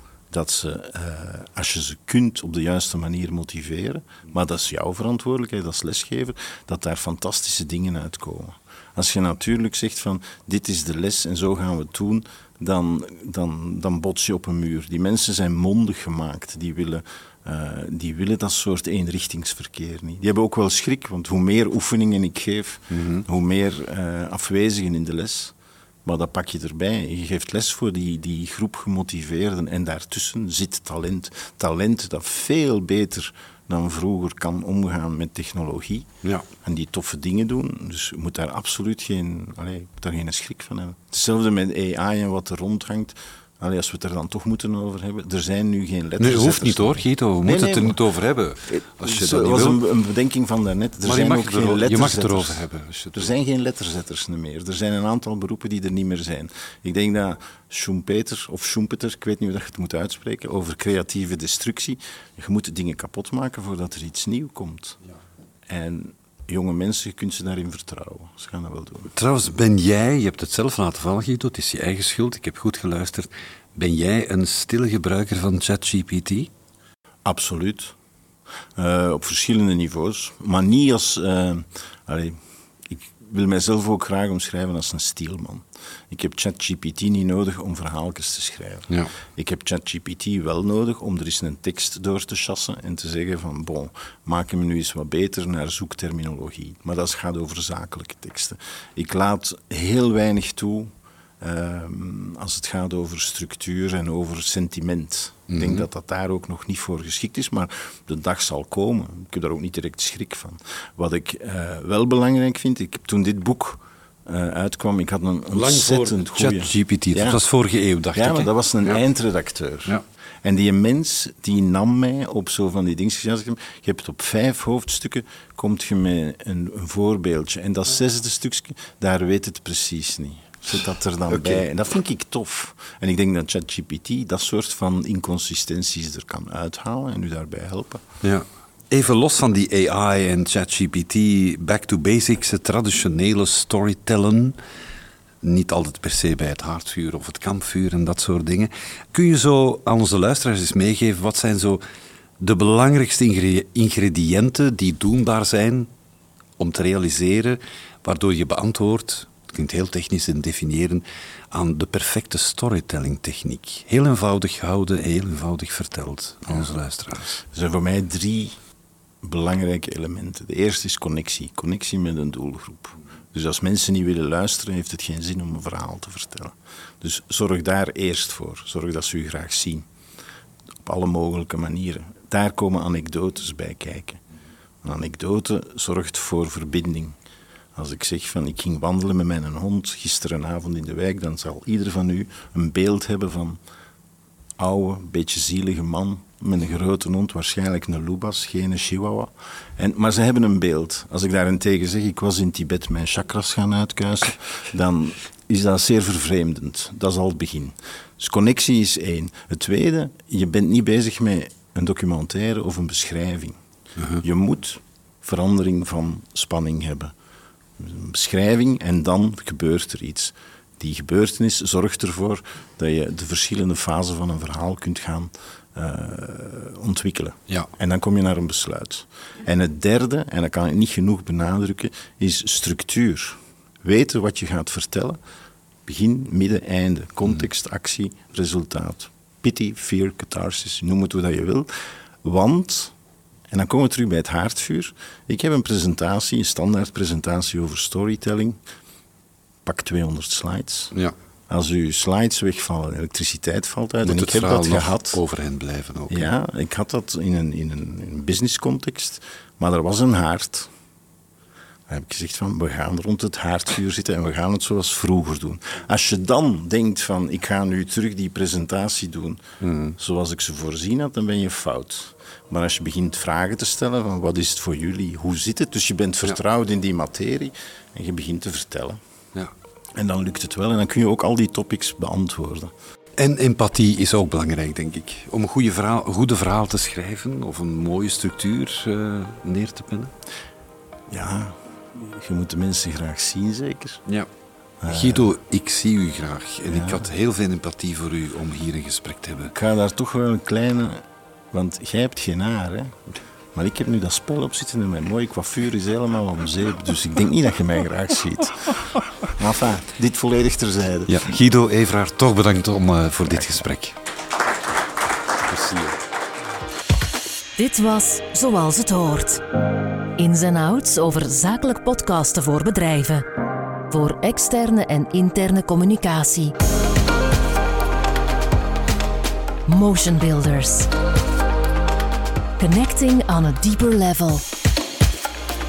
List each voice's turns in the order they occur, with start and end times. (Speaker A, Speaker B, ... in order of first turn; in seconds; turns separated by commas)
Speaker A: 0.3-36.1, Speaker B: 22.9-23.2, Speaker A: 36.6-48.0, Speaker B: 46.2-49.8, Speaker A: 48.7-52.6, Speaker B: 51.0-53.3, Speaker A: 53.1-65.0, Speaker A: 65.7-69.1, Speaker B: 69.1-76.5, Speaker A: 77.2-78.0, Speaker A: 78.8-117.4, Speaker B: 105.5-105.8, Speaker B: 115.5-119.0, Speaker A: 118.1-138.0, Speaker B: 131.3-131.6, Speaker B: 138.2-144.6, Speaker B: 145.4-151.8, Speaker B: 152.4-155.9, Speaker B: 156.6-167.4, Speaker A: 167.4-168.5, Speaker A: 169.2-179.8, Speaker A: 180.8-184.2, Speaker A: 184.8-187.2, Speaker A: 187.7-193.6, Speaker A: 194.6-213.6, Speaker A: 214.2-217.1, Speaker A: 217.8-235.2, Speaker A: 235.8-241.7, Speaker A: 242.2-242.9, Speaker A: 243.5-248.6, Speaker A: 249.6-250.9, Speaker A: 251.5-255.2, Speaker B: 254.0-256.3, Speaker A: 256.1-260.7, Speaker A: 261.9-269.4, Speaker B: 269.6-269.9, Speaker A: 270.0-279.0, Speaker A: 279.9-282.7, Speaker B: 283.2-290.1, Speaker A: 291.1-294.0, Speaker A: 294.8-295.3, Speaker B: 294.9-299.5, Speaker A: 296.7-297.1, Speaker A: 299.5-302.9, Speaker A: 303.5-311.4, Speaker B: 311.1-314.0, Speaker A: 313.4-313.6, Speaker B: 315.5-316.0, Speaker C: 317.6-319.4, Speaker C: 320.2-323.2, Speaker C: 323.9-326.5, Speaker C: 329.7-330.9, Speaker C: 332.6-334.4